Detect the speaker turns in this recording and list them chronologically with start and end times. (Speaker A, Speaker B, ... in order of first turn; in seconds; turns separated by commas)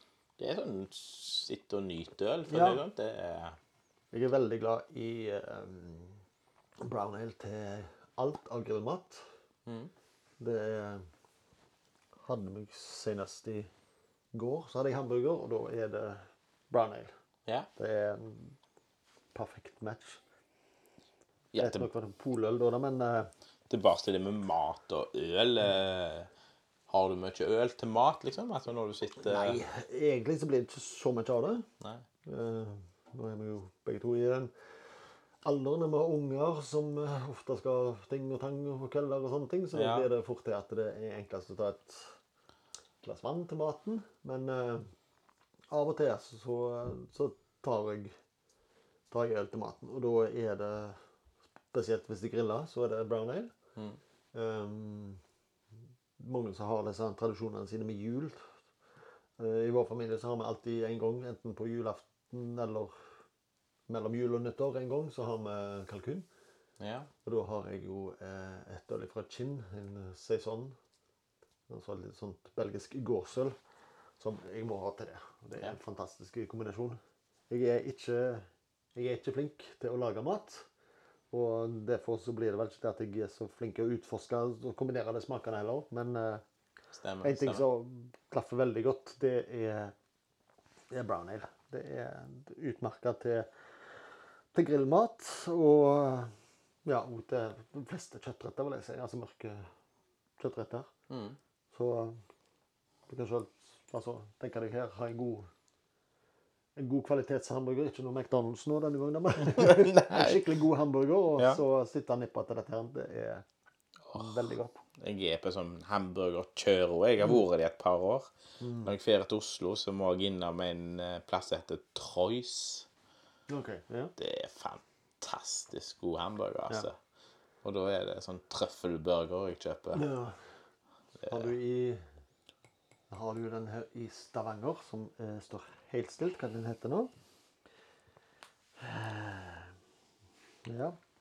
Speaker A: 0.4-3.6, Speaker B: 2.5-2.8, Speaker B: 4.1-6.2, Speaker B: 6.8-9.2, Speaker B: 10.4-11.0, Speaker B: 12.2-13.7, Speaker B: 14.3-17.1, Speaker B: 17.8-18.6, Speaker B: 19.3-20.2, Speaker A: 21.5-21.9, Speaker B: 21.6-23.3, Speaker A: 23.7-26.3, Speaker A: 26.9-29.6, Speaker B: 29.2-31.7, Speaker B: 32.2-34.5, Speaker B: 35.4-42.2, Speaker A: 39.7-40.1, Speaker B: 43.0-44.9, Speaker B: 45.7-48.1, Speaker B: 49.1-51.0, Speaker B: 51.7-53.5, Speaker B: 54.3-55.2, Speaker B: 56.2-58.4, Speaker B: 59.4-62.9, Speaker B: 63.9-66.3, Speaker A: 66.8-67.1, Speaker B: 67.2-70.8, Speaker B: 71.7-73.5, Speaker B: 74.2-77.0, Speaker B: 77.5-80.7, Speaker B: 81.3-86.4, Speaker A: 87.0-87.6, Speaker B: 87.2-89.9, Speaker B: 90.9-93.5, Speaker B: 94.5-99.7, Speaker B: 100.4-100.9, Speaker A: 101.1-101.4, Speaker B: 101.7-102.2, Speaker B: 103.1-105.5, Speaker B: 106.8-113.4, Speaker A: 109.5-110.4, Speaker B: 114.1-114.8, Speaker A: 114.1-114.4, Speaker A: 115.0-118.3, Speaker B: 118.6-118.9, Speaker A: 118.8-122.9, Speaker B: 123.5-124.1, Speaker A: 124.2-127.0, Speaker A: 127.6-130.0, Speaker B: 129.9-130.5, Speaker B: 131.2-132.0, Speaker B: 133.1-137.1, Speaker B: 138.8-139.7, Speaker B: 140.7-141.0